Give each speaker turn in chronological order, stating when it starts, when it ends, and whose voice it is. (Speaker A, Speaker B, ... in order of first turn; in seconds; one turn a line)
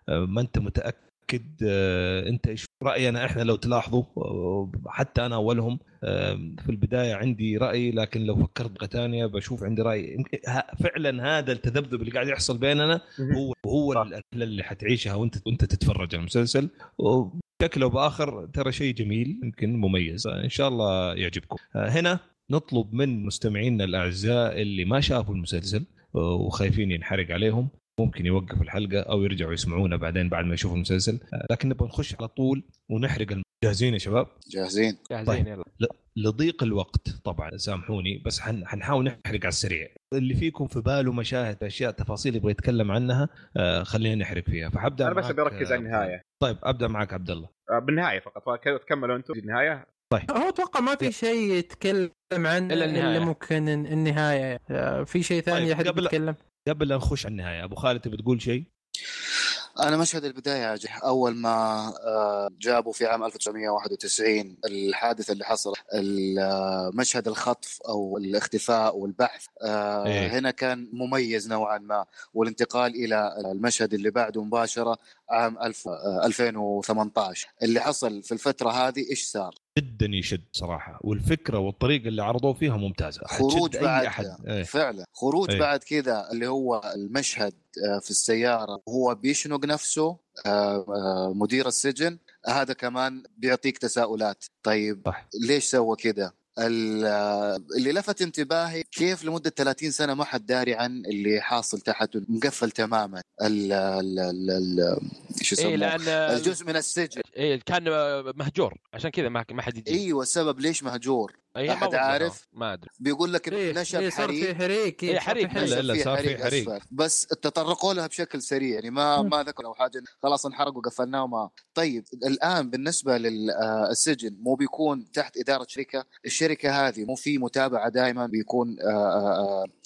Speaker A: 0.3-34.3
Speaker B: 34.5-35.0
Speaker C: 35.1-35.6
Speaker A: 35.3-47.5
Speaker D: 45.0-46.2
Speaker D: 47.7-49.9
Speaker E: 50.3-56.4
Speaker C: 52.7-53.3
Speaker A: 55.5-56.1
Speaker A: 56.6-58.6
Speaker B: 59.4-79.5
Speaker A: 70.0-70.3
Speaker A: 79.8-84.7
Speaker B: 83.3-107.2
Speaker C: 105.6-106.5
Speaker C: 107.2-110.0
Speaker B: 109.9-112.3
Speaker C: 111.5-112.9
Speaker B: 113.0-114.5
Speaker E: 113.5-115.7
Speaker C: 115.1-115.6
Speaker A: 115.5-116.8
Speaker B: 115.5-129.7